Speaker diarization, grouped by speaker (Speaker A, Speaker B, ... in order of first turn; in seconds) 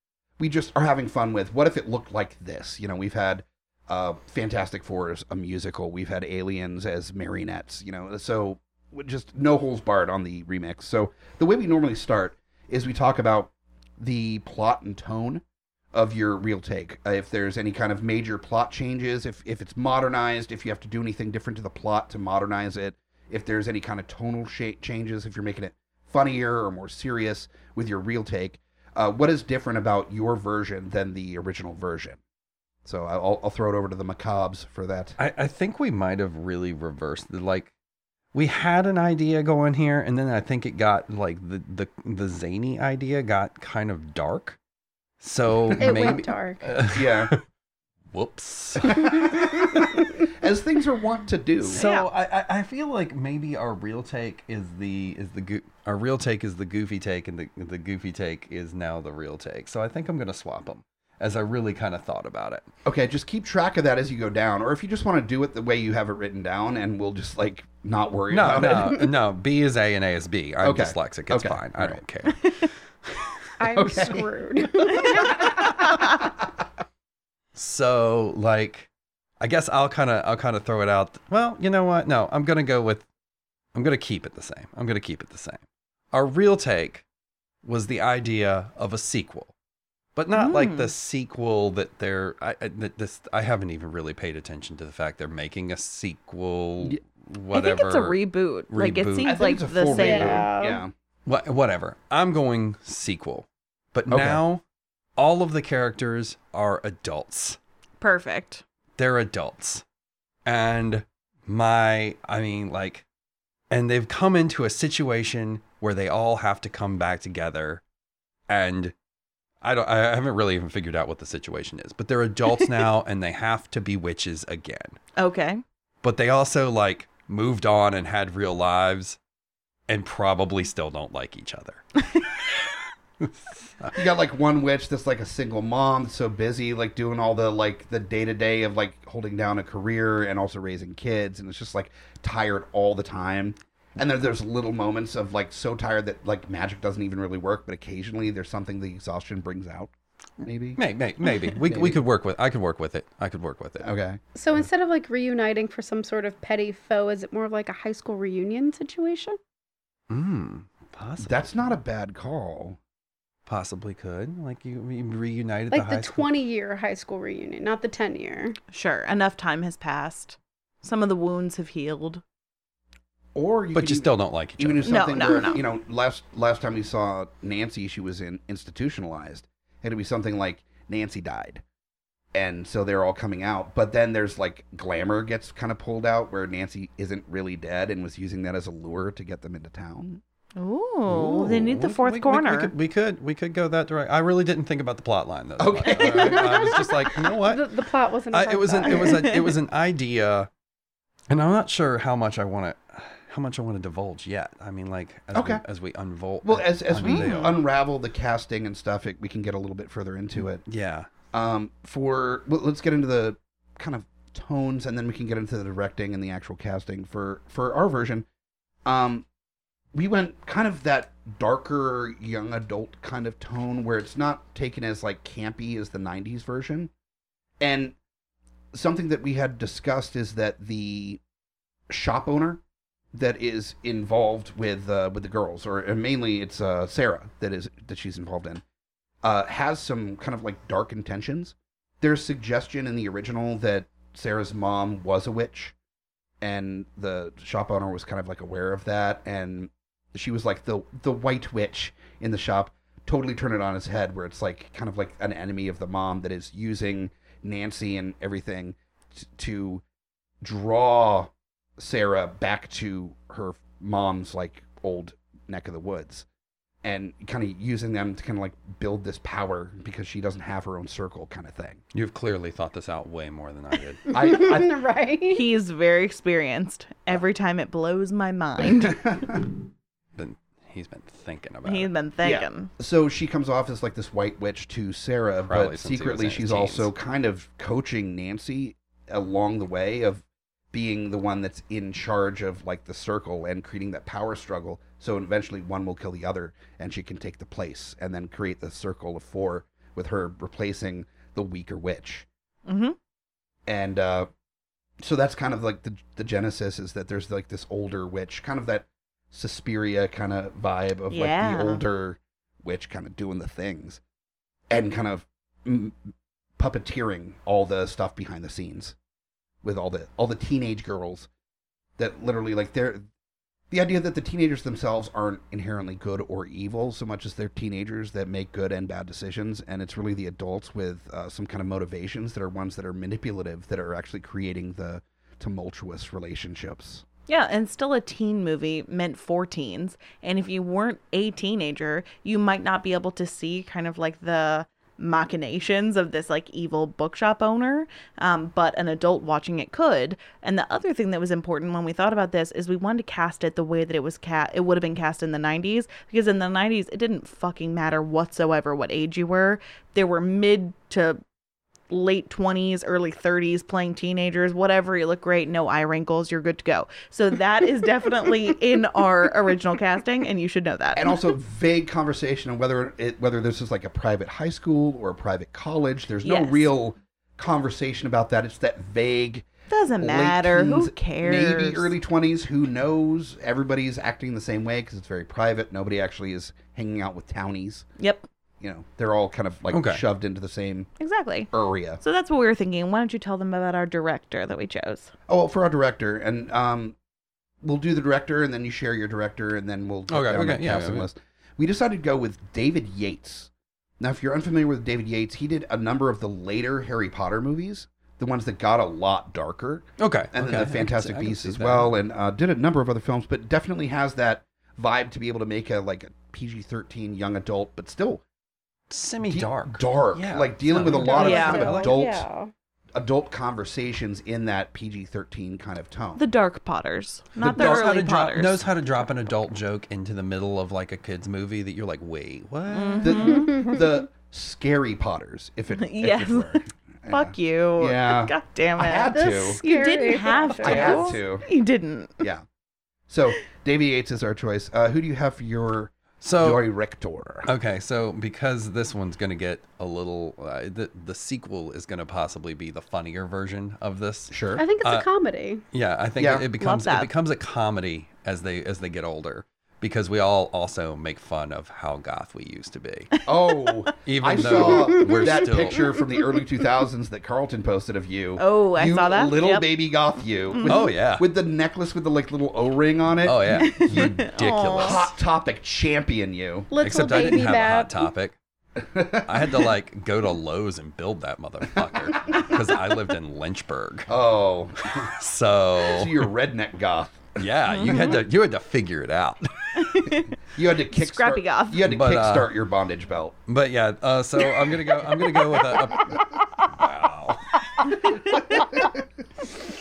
Speaker A: 0.4-15.4, 15.9-32.2, 32.8-35.1, 46.9-47.3, 48.8-51.8, 62.8-69.0, 70.6-72.0, 73.7-74.3, 99.2-100.9, 104.1-104.4, 133.9-149.9, 150.4-150.8, 151.6-152.0, 153.8-154.7, 161.2-162.8, 173.3-181.6, 182.3-190.2, 195.6-196.7, 205.3-205.6, 206.4-210.6, 211.3-218.2, 218.8-219.2, 219.9-226.9, 227.6-227.9, 228.7-231.2, 231.9-232.6, 233.1-238.6, 239.2-245.7, 246.4-259.8, 260.4-266.2, 266.8-271.8, 274.1-274.7, 278.6-279.4, 282.2-302.3, 303.7-304.3, 305.0-314.0, 314.7-315.9, 316.6-318.9, 319.6-321.3, 322.0-323.0, 323.7-337.0, 370.9-379.4, 380.0-387.9, 388.6-390.9, 391.5-392.0, 395.3-396.9, 397.6-418.2, 419.2-422.2, 422.9-426.2, 427.4-427.8, 433.0-439.6, 440.6-441.4, 443.1-447.5, 454.3-454.6, 456.2-456.5, 463.2-474.2, 474.8-476.7, 478.8-479.3, 484.1-485.1, 485.8-487.4, 490.5-493.4, 498.3-499.0
Speaker B: 35.2-37.7, 38.3-44.6, 45.2-47.4, 48.1-49.9, 51.7-62.7, 68.3-73.3, 77.5-78.9, 79.4-83.0, 83.7-87.0, 87.6-89.5, 90.1-98.2, 98.7-99.4, 101.2-104.6, 105.2-107.6, 109.0-109.8, 110.4-113.0, 113.7-117.8, 118.5-118.9, 119.6-125.0, 126.0-129.2, 129.9-131.8, 133.2-134.0, 150.7-153.9, 160.1-161.6, 163.4-166.3, 173.7-175.3, 191.1-197.7, 198.3-200.5, 201.3-207.6, 210.3-211.1, 271.9-274.0, 280.2-281.9, 285.4-286.9, 389.7-390.0, 400.1-401.1, 410.0-411.9, 418.9-422.0, 427.4-433.6, 446.2-446.6, 447.4-455.1, 455.7-463.1, 464.0-465.9, 470.6-471.3, 473.2-475.1, 476.8-478.4, 479.3-484.1, 485.0-486.3, 487.4-490.1, 491.8-492.5, 493.5-497.7
Speaker C: 45.8-46.7, 73.6-75.8, 99.9-100.5, 154.3-159.4, 165.7-168.6, 195.9-199.3, 274.1-275.4, 420.9-422.5, 433.5-433.8, 439.1-441.2, 454.6-455.6, 464.7-465.3, 476.7-478.0
Speaker D: 51.7-52.1, 90.3-90.9, 97.5-100.8, 108.0-108.6, 125.2-125.6, 168.7-172.2, 174.8-175.6, 190.6-192.7, 199.1-199.4, 207.0-207.5, 275.3-279.0, 281.6-282.7, 302.7-302.9, 311.1-311.8, 337.3-361.2, 361.9-371.2, 376.2-376.7, 379.7-381.9, 388.0-388.2, 391.0-391.5, 392.0-395.1, 421.1-421.7, 426.1-428.7, 432.7-433.5, 435.8-442.2, 456.6-457.1, 468.4-469.7, 473.6-475.1, 487.7-488.2, 489.8-490.3, 490.9-491.8